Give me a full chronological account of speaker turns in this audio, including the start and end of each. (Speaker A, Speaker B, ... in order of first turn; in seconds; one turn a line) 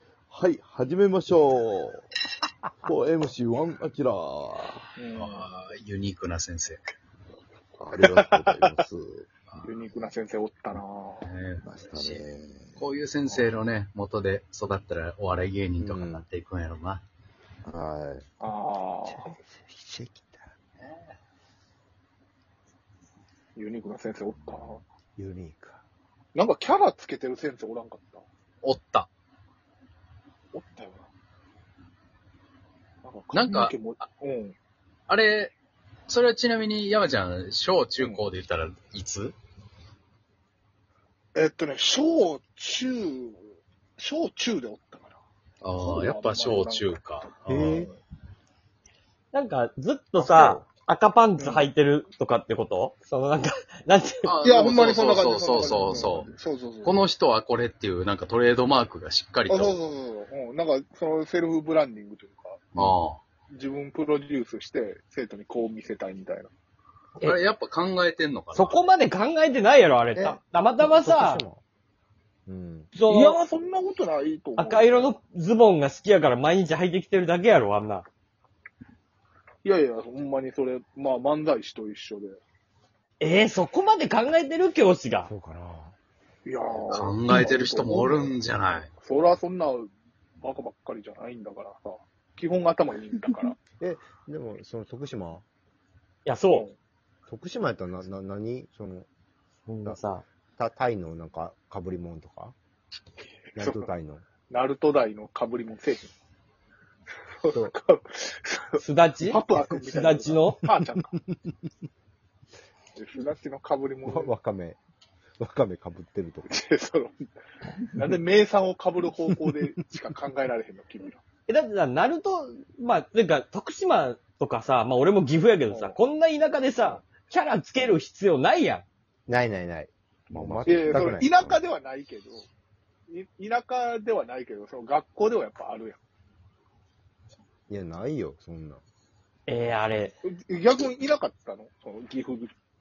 Speaker A: 0.3-2.1
Speaker A: 2.8-4.9
Speaker B: 5.0-5.5
Speaker C: 5.2-6.8
Speaker A: 7.8-9.3
Speaker B: 8.0-8.7
Speaker B: 9.6-11.3
Speaker C: 11.2-12.2
Speaker A: 11.6-12.8
Speaker C: 12.8-17.0
Speaker D: 15.8-16.3
Speaker A: 17.6-18.3
Speaker B: 18.4-19.4
Speaker D: 19.1-20.6
Speaker B: 23.6-24.8
Speaker A: 24.4-24.7
Speaker D: 25.2-25.9
Speaker B: 26.4-28.2
Speaker C: 28.6-29.1
Speaker B: 30.5-31.1
Speaker B: 33.0-34.5
Speaker C: 33.3-34.1
Speaker C: 35.1-35.5
Speaker C: 36.1-39.4
Speaker B: 38.0-38.2
Speaker B: 41.3-45.2
Speaker C: 45.6-47.9
Speaker B: 45.8-46.9
Speaker D: 47.5-47.9
Speaker B: 47.5-48.0
Speaker E: 49.3-54.4
Speaker B: 50.2-50.6
Speaker B: 51.4-51.7
Speaker C: 54.2-56.3
Speaker B: 54.4-57.1
Speaker C: 56.8-59.8
Speaker B: 59.5-62.6
Speaker A: 62.8-63.0
Speaker C: 62.8-63.2
Speaker B: 63.5-66.5
Speaker C: 67.2-68.8
Speaker E: 68.5-71.4
Speaker D: 70.2-71.6
Speaker D: 72.5-72.9
Speaker E: 73.0-73.4
Speaker B: 73.1-75.2
Speaker E: 74.6-78.1
Speaker B: 79.6-82.4
Speaker E: 83.2-85.3
Speaker D: 85.3-86.0
Speaker B: 86.5-88.4
Speaker C: 86.9-88.9
Speaker B: 89.0-89.9
Speaker B: 90.4-93.6
Speaker D: 93.8-95.5
Speaker E: 96.2-96.7
Speaker D: 97.3-99.1
Speaker E: 99.7-100.2
Speaker D: 99.8-102.6
Speaker B: 103.5-103.9
Speaker D: 103.5-104.3
Speaker B: 104.4-106.1
Speaker B: 107.3-111.2
Speaker D: 107.5-107.8
Speaker E: 108.8-110.6
Speaker D: 110.6-111.5
Speaker B: 113.0-114.3
Speaker D: 114.0-114.8
Speaker D: 115.4-116.5
Speaker B: 116.5-117.3
Speaker B: 118.0-121.2
Speaker D: 119.3-119.6
Speaker E: 121.5-128.8
Speaker B: 125.7-126.0
Speaker D: 129.3-131.4
Speaker A: 130.3-131.6
Speaker B: 130.7-132.5
Speaker B: 133.1-136.0
Speaker D: 137.7-138.8
Speaker E: 139.5-140.2
Speaker B: 140.2-142.5